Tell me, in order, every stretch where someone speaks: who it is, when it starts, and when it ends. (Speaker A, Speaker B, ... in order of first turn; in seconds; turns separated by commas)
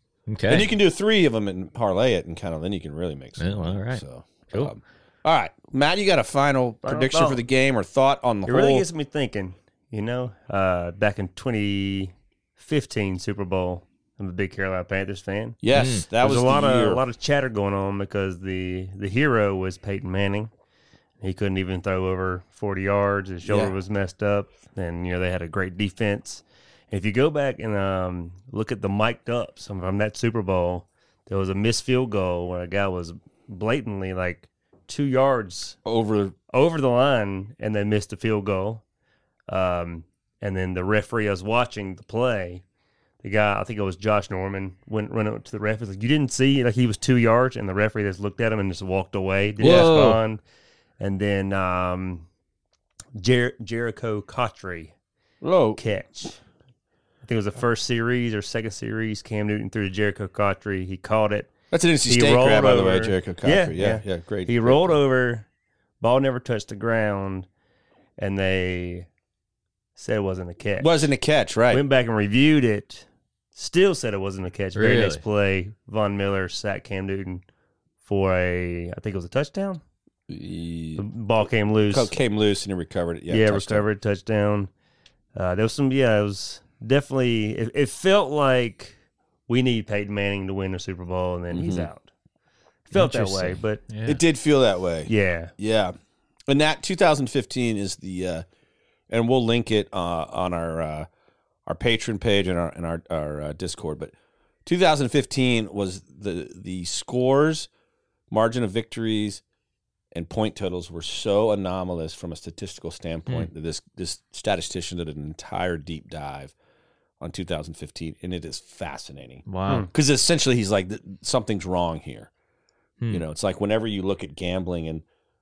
Speaker A: 0.3-0.7, Speaker B: 0.5-8.9, Speaker A: 3.4-4.7, Speaker C: 6.8-7.4, Speaker C: 8.4-15.6, Speaker B: 15.6-17.0, Speaker A: 15.7-16.1, Speaker C: 16.2-20.5, Speaker C: 21.2-35.8, Speaker B: 23.4-23.7, Speaker B: 35.8-36.3, Speaker C: 36.5-38.8, Speaker C: 39.5-42.6, Speaker C: 43.2-50.4, Speaker A: 49.6-50.2, Speaker B: 49.6-50.0, Speaker C: 51.0-52.3, Speaker C: 53.1-54.9, Speaker B: 55.4-55.8, Speaker C: 55.8-56.4, Speaker C: 57.2-61.5, Speaker B: 61.7-64.9, Speaker C: 62.1-65.5, Speaker C: 66.0-67.5, Speaker C: 68.2-69.1, Speaker C: 70.0-71.1, Speaker B: 70.8-71.8, Speaker C: 71.7-77.4, Speaker A: 74.7-75.2, Speaker C: 78.0-79.8, Speaker B: 80.3-81.0, Speaker C: 81.0-82.1, Speaker B: 81.9-83.9, Speaker C: 83.3-84.7, Speaker C: 85.3-88.9, Speaker C: 89.5-92.1, Speaker B: 91.5-91.9, Speaker C: 92.9-93.8, Speaker A: 92.9-94.2, Speaker B: 94.0-95.9, Speaker C: 95.1-95.5, Speaker B: 96.5-98.4, Speaker B: 99.1-101.1, Speaker B: 101.7-104.1, Speaker B: 104.7-107.7, Speaker B: 108.3-109.4, Speaker B: 110.1-116.5, Speaker B: 117.2-122.3, Speaker A: 119.5-119.9, Speaker B: 123.1-125.0